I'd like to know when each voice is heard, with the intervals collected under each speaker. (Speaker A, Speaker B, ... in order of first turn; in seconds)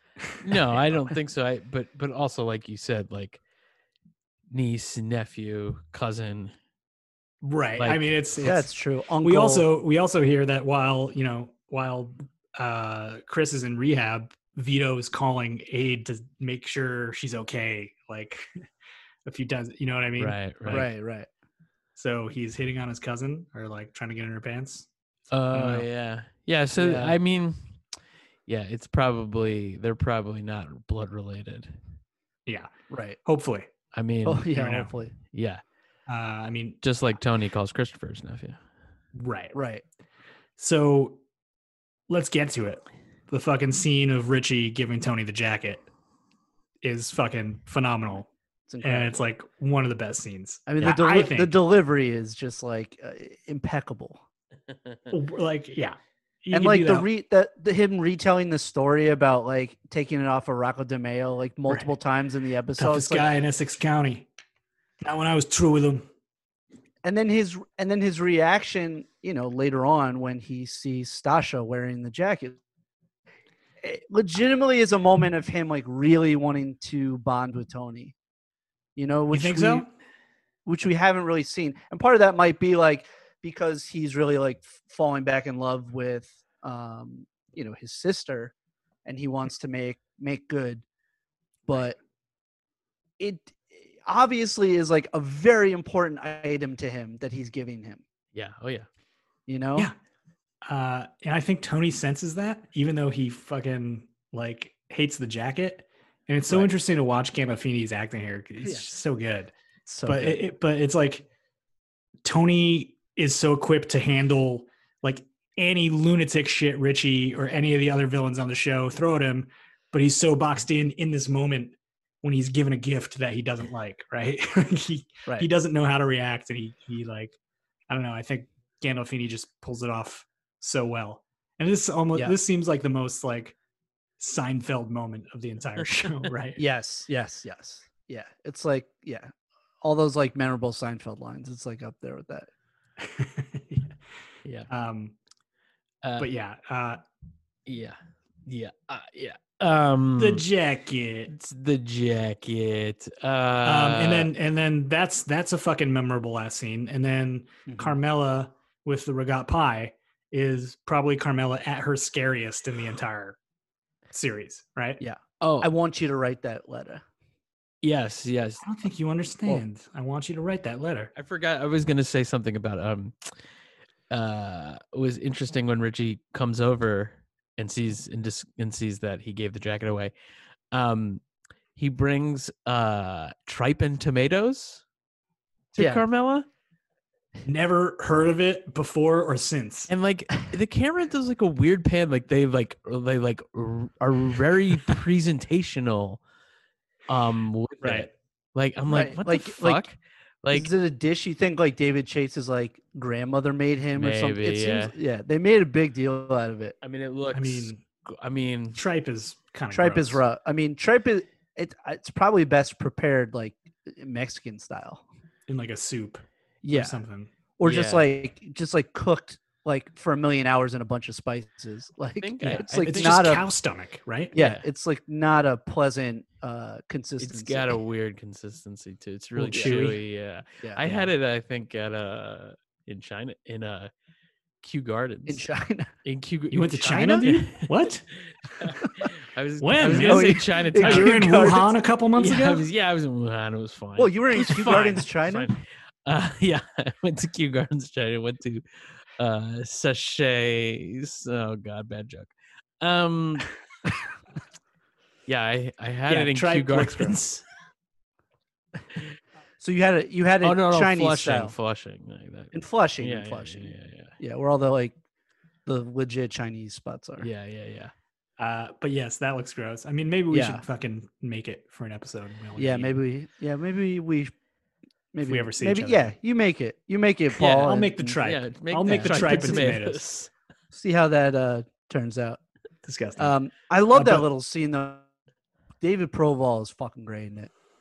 Speaker A: 0.4-3.4, 4.5-6.5, 7.8-8.1, 20.2-20.9, 25.3-27.8, 28.5-31.8, 33.9-34.5, 35.3-35.6, 36.8-38.6, 98.3-98.8, 146.0-146.3, 147.7-150.4, 151.3-154.3, 165.4-165.7, 167.8-168.6, 171.1-173.3, 174.1-180.1, 180.7-181.2, 181.8-184.8, 185.7-186.5, 189.9-196.2, 197.1-200.7, 203.9-204.9, 206.8-208.8, 217.6-218.0, 222.2-223.3, 224.3-224.6, 227.2-233.9, 234.6-235.4, 236.0-237.9, 238.6-241.5, 242.1-248.6, 249.2-253.5, 255.3-257.2, 260.4-264.1, 267.2-267.9, 277.4-280.3
Speaker B: 7.4-8.7, 9.2-18.5, 19.2-20.9, 21.9-24.9, 25.5-25.8, 32.5-32.7, 33.2-33.7, 34.5-34.9, 36.1-36.8, 39.1-39.5, 40.6-41.2, 42.1-45.9, 46.8-48.3, 48.8-51.5, 55.1-57.1, 62.8-64.3, 65.0-66.0, 79.3-79.9, 100.7-109.5, 110.0-111.2, 112.2-127.4, 127.9-133.5, 134.2-136.6, 143.0-143.9, 144.7-145.1, 146.2-147.0, 150.2-151.3, 153.6-163.4, 164.1-165.0, 168.6-171.1, 187.4-189.9, 197.8-198.1, 207.3-207.8, 208.7-210.2, 215.5-217.3, 222.8-224.3, 229.3-230.0, 236.5-238.1, 239.6-242.6, 256.1-257.4, 268.4-273.0, 275.2-276.1, 277.6-280.0, 282.8-283.3, 283.9-284.3
Speaker C: 8.4-9.7, 20.7-21.3, 26.8-27.2, 32.9-33.2, 34.2-35.1, 39.5-39.8, 48.7-49.2, 50.7-54.2, 56.5-63.3, 67.0-72.6, 73.8-78.1, 79.0-79.8, 80.7-88.5, 89.0-90.8, 91.7-92.0, 93.2-98.0, 99.5-99.9, 109.8-110.4, 136.6-139.3, 139.8-142.5, 157.7-158.0, 165.0-167.0, 185.8-186.0, 198.9-199.8, 200.5-206.8, 209.7-215.0, 216.6-217.0, 217.6-223.4, 224.3-227.8, 229.5-229.8, 230.6-231.1, 235.3-235.9, 236.8-237.3, 239.9-241.8, 244.0-245.5, 259.6-261.5, 262.5-264.9, 265.6-267.3, 270.3-270.6, 272.6-274.3, 275.1-278.2, 278.9-279.8, 280.7-282.4, 283.2-285.0, 285.8-287.5